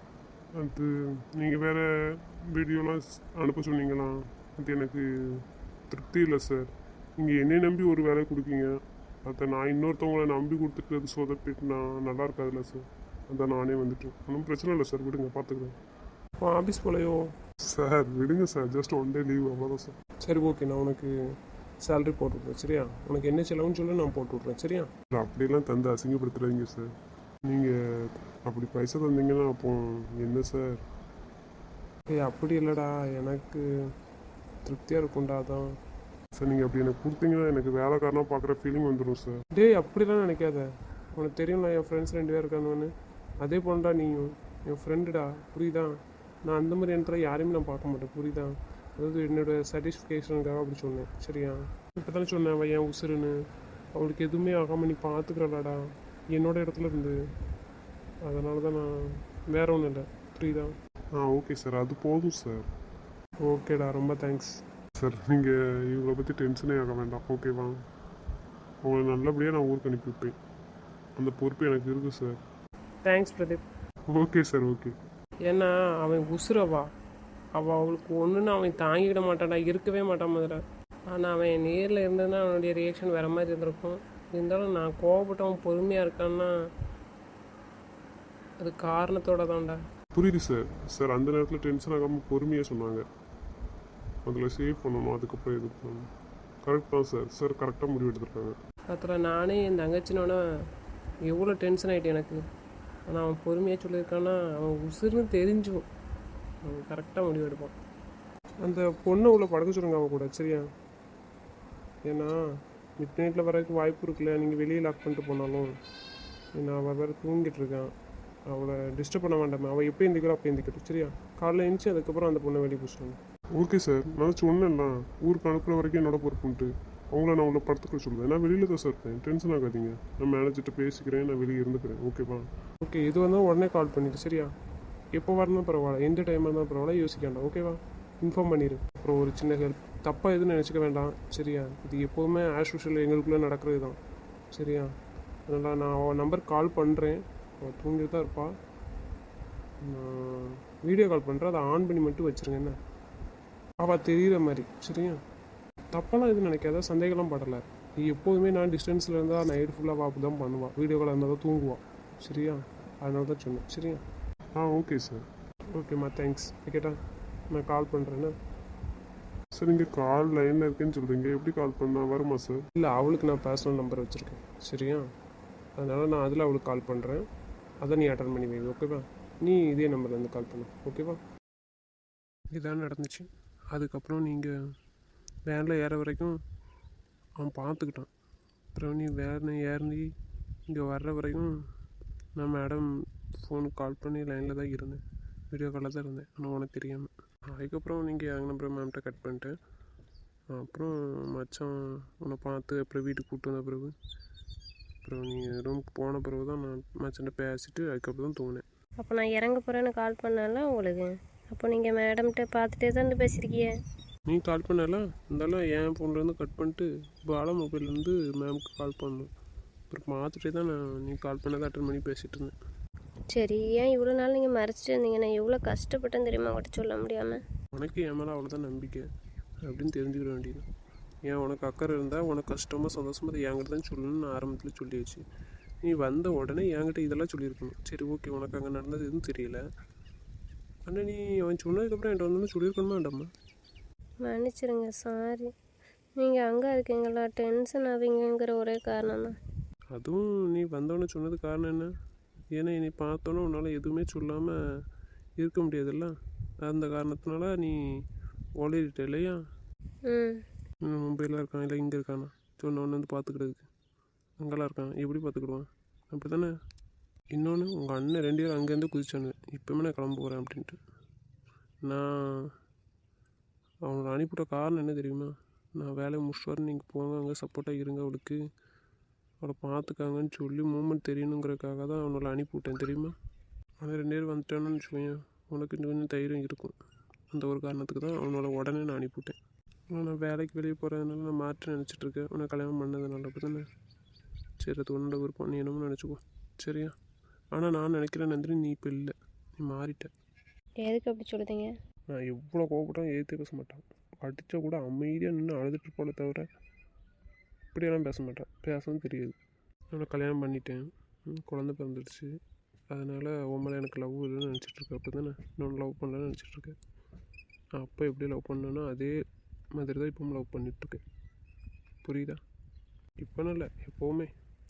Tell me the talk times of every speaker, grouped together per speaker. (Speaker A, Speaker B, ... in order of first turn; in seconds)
Speaker A: 0.6-8.7, 9.2-15.8, 17.7-20.0, 25.1-26.9, 27.5-27.8, 28.4-30.8, 36.4-39.4, 61.2-62.7, 65.0-67.8, 68.8-70.3, 71.2-72.4, 74.1-74.9, 90.2-93.0, 94.3-96.1, 96.7-98.6, 123.6-132.5, 164.6-165.2, 169.6-172.6
Speaker B: 16.4-17.2, 20.2-21.1, 21.8-24.9, 32.1-33.7, 34.6-35.7, 39.5-45.9, 46.5-53.3, 54.0-55.8, 56.3-57.2, 58.3-60.7, 63.5-64.6, 73.1-73.6, 75.5-76.9, 77.5-86.5, 88.6-89.8, 98.9-100.4, 101.3-102.4, 103.1-105.9, 106.7-107.7, 108.6-110.7, 112.1-112.4, 113.0-115.7, 116.6-117.9, 118.5-123.2, 132.8-134.5, 135.1-144.0, 144.5-144.9, 145.5-148.6, 149.8-152.8, 153.8-155.2, 155.9-164.0, 165.7-167.0, 167.5-168.3, 172.8-175.1, 175.8-177.3, 177.8-181.2, 182.5-184.5, 185.5-186.4, 187.4-188.1, 188.8-190.1, 190.7-191.6, 192.4-199.5, 200.5-203.9, 205.0-208.6, 214.3-219.3, 219.9-222.5, 227.8-229.0, 229.7-230.7, 231.3-235.2, 235.8-239.6, 240.9-243.3, 249.9-251.9, 252.6-254.6, 255.4-257.8, 258.6-259.4, 260.8-263.7, 264.4-266.5, 267.3-270.8, 271.9-272.5, 273.9-278.4, 279.4-283.1, 283.8-286.8, 287.3-289.4, 289.9-293.6, 294.6-296.9, 297.5-300.1, 302.1-306.5, 307.7-309.4, 309.9-312.3, 312.9-316.8, 317.8-319.1, 319.8-321.0, 322.0-322.4, 323.2-324.3
Speaker C: 209.0-213.7, 223.3-227.4, 244.2-245.5, 246.2-249.4, 260.1-260.4, 300.8-301.7